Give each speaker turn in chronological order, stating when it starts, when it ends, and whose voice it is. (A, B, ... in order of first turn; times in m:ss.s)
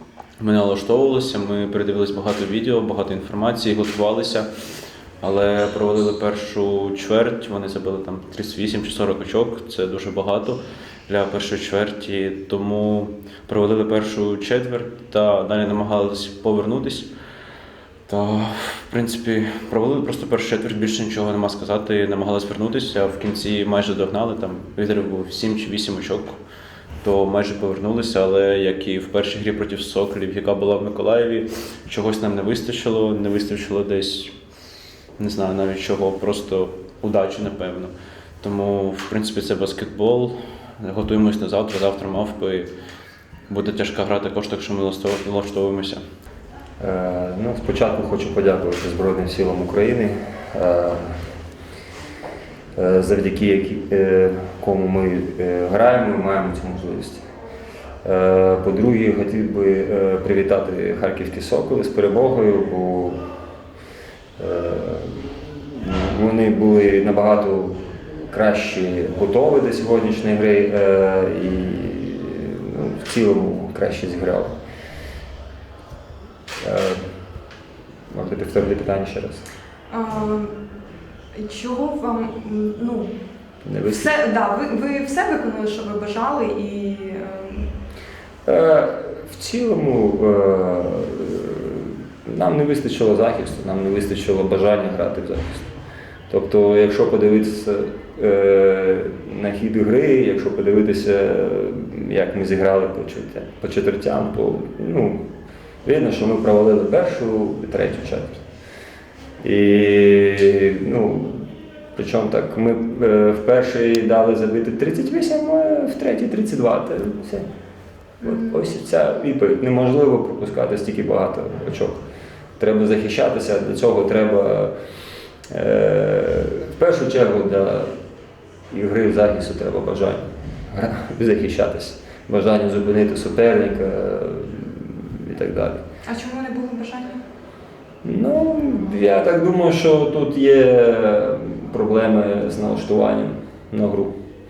0:00.4-0:04.5 A
0:05.2-0:17.1 A
0:18.1-0:26.4 A
0:27.0-0:34.3 A
0:35.2-0:42.7 A
0:43.5-0:46.0 A
0:46.8-0:51.2 B
0:52.8-0:57.2 B
0:58.0-1:03.2 B
1:04.4-1:14.5 B
1:16.6-1:17.0 B
1:18.1-1:19.4 B
1:19.9-1:20.5 C
1:21.4-1:23.1 C
1:23.6-1:24.1 B
1:23.9-1:27.7 C
1:28.4-1:35.6 B
1:36.3-1:45.2 B
1:45.8-1:48.4 B
1:49.4-1:57.4 B
1:58.2-2:02.0 B
2:02.6-2:04.7 B
2:05.5-2:07.9 B
2:08.7-2:15.8 B
2:16.1-2:17.2 C
2:18.0-2:24.2 B